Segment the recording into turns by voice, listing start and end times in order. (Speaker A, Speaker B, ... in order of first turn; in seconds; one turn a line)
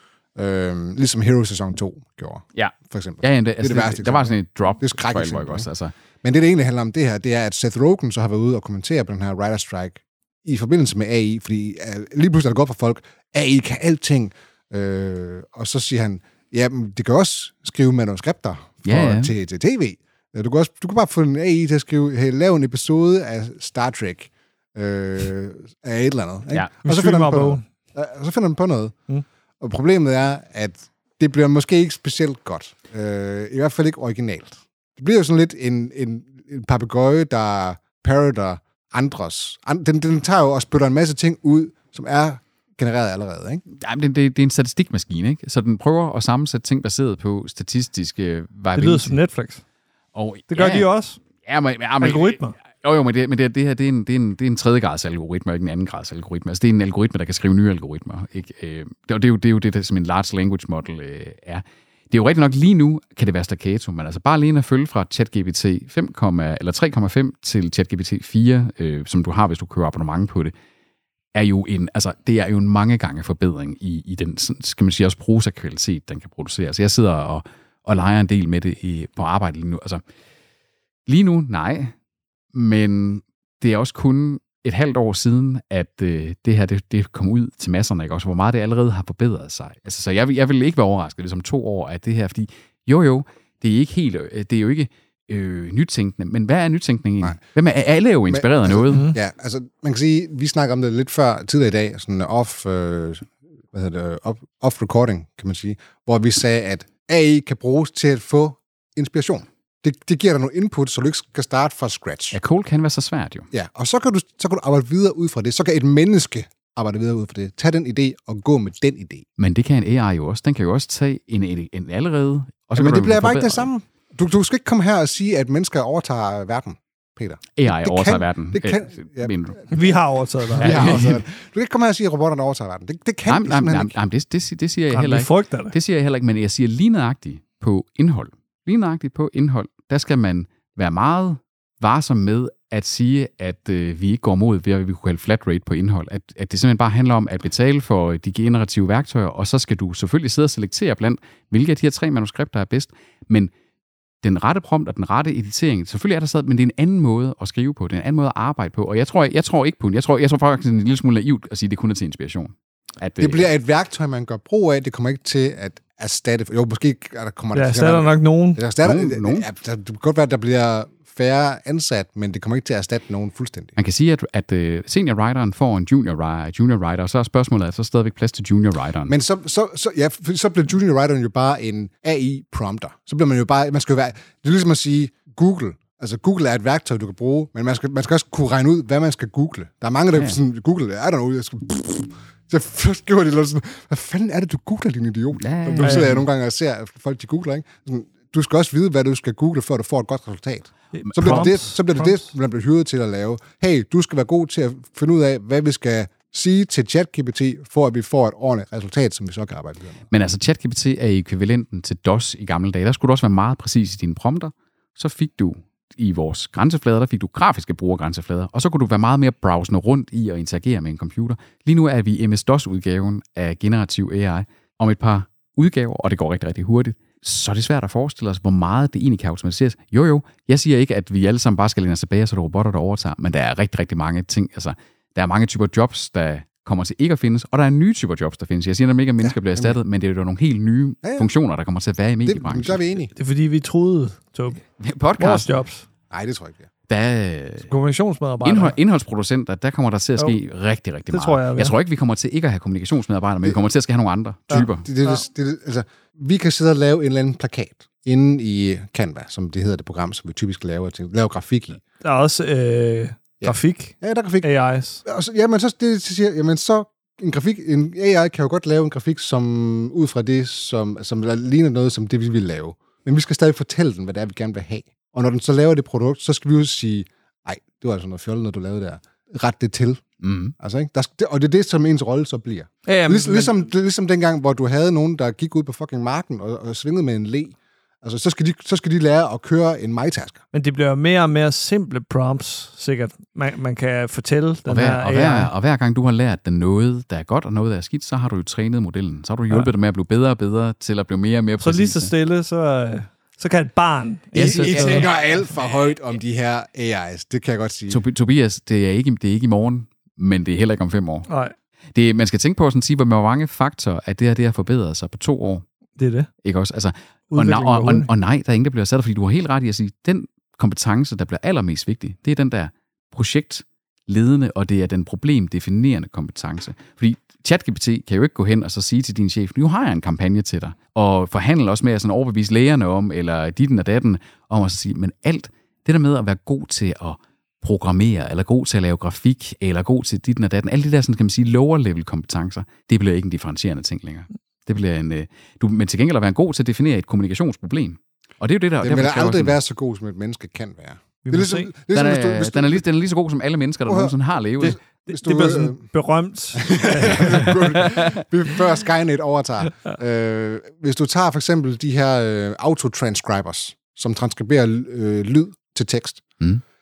Speaker A: 0.4-5.7
Speaker B: 2.5-5.9
Speaker A: 6.2-28.9
Speaker B: 18.9-19.3
Speaker C: 26.8-27.6
Speaker A: 29.6-43.6
Speaker B: 43.7-49.2
Speaker C: 48.8-49.6
Speaker B: 50.1-50.9
Speaker C: 50.5-51.2
Speaker B: 51.4-70.5
Speaker C: 52.0-52.5
Speaker B: 71.3-80.0
Speaker B: 81.1-81.9
Speaker B: 82.5-99.1
Speaker A: 98.3-112.4
Speaker C: 98.9-99.2
Speaker B: 112.3-113.5
Speaker A: 113.5-119.2
Speaker B: 119.4-123.7
Speaker A: 122.8-129.3
Speaker B: 127.6-129.7
Speaker C: 129.7-131.1
Speaker B: 130.6-131.2
Speaker A: 130.6-133.9
Speaker B: 133.3-153.5
Speaker C: 134.9-135.7
Speaker B: 154.2-163.5
Speaker A: 163.2-173.7
Speaker C: 167.5-168.6
Speaker B: 168.8-169.5
Speaker B: 173.8-179.1
Speaker A: 179.1-210.0
Speaker B: 195.4-196.2
Speaker C: 195.8-196.1
Speaker C: 200.9-202.3
Speaker B: 201.1-201.5
Speaker B: 210.1-243.0
Speaker A: 239.2-239.8
Speaker A: 241.0-241.3
Speaker A: 242.2-243.1
Speaker C: 243.2-244.6
Speaker B: 244.8-245.5
Speaker C: 245.2-245.8
Speaker A: 246.1-246.7
Speaker B: 246.9-247.7
Speaker C: 247.7-248.8
Speaker B: 248.4-254.9
Speaker C: 251.1-251.7
Speaker C: 254.5-255.2
Speaker A: 254.5-261.8
Speaker C: 262.0-265.0
Speaker A: 263.4-264.5
Speaker A: 265.0-280.0
Speaker B: 280.2-280.5
Speaker A: 280.6-290.4
Speaker C: 282.9-283.6
Speaker C: 290.5-295.5
Speaker B: 294.7-302.1
Speaker C: 301.6-305.1
Speaker B: 304.4-305.2
Speaker A: 304.4-308.0
Speaker B: 307.9-311.3
Speaker C: 311.3-311.5
Speaker B: 311.9-315.6
Speaker C: 316.0-316.3
Speaker B: 316.4-349.6
Speaker C: 317.3-318.1
Speaker A: 348.8-352.8
Speaker C: 351.2-351.7
Speaker B: 351.9-354.8
Speaker A: 353.9-355.8
Speaker C: 354.6-358.0
Speaker A: 356.6-366.2